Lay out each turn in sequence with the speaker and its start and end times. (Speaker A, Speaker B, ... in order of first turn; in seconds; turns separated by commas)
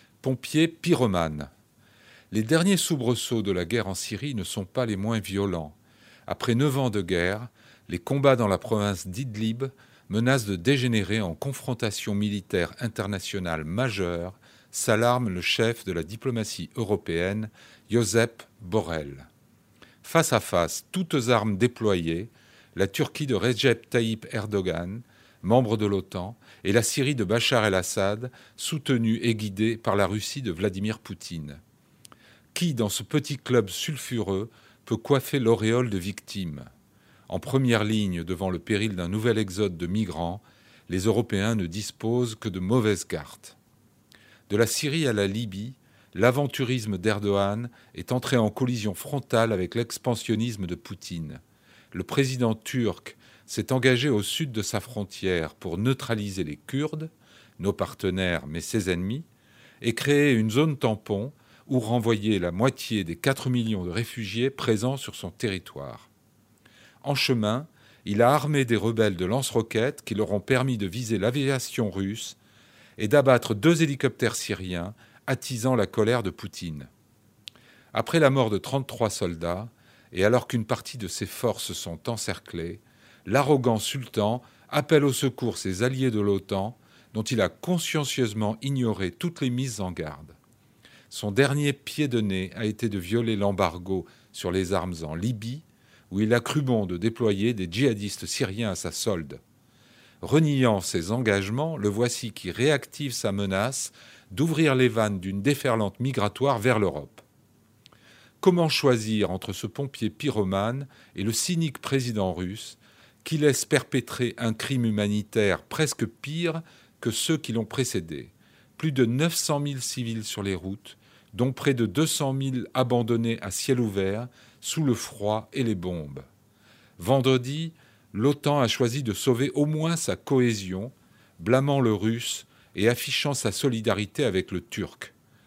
Speaker A: 0.2-1.5, Speaker A: 2.3-5.8, Speaker A: 6.3-19.3, Speaker A: 20.0-31.6, Speaker A: 32.5-36.7, Speaker A: 37.3-43.6, Speaker A: 44.5-51.4, Speaker A: 51.9-59.2, Speaker A: 59.8-66.1, Speaker A: 67.0-72.4, Speaker A: 73.0-76.9, Speaker A: 77.9-90.4, Speaker A: 91.1-99.4, Speaker A: 100.2-107.2, Speaker A: 108.4-126.3, Speaker A: 127.0-135.1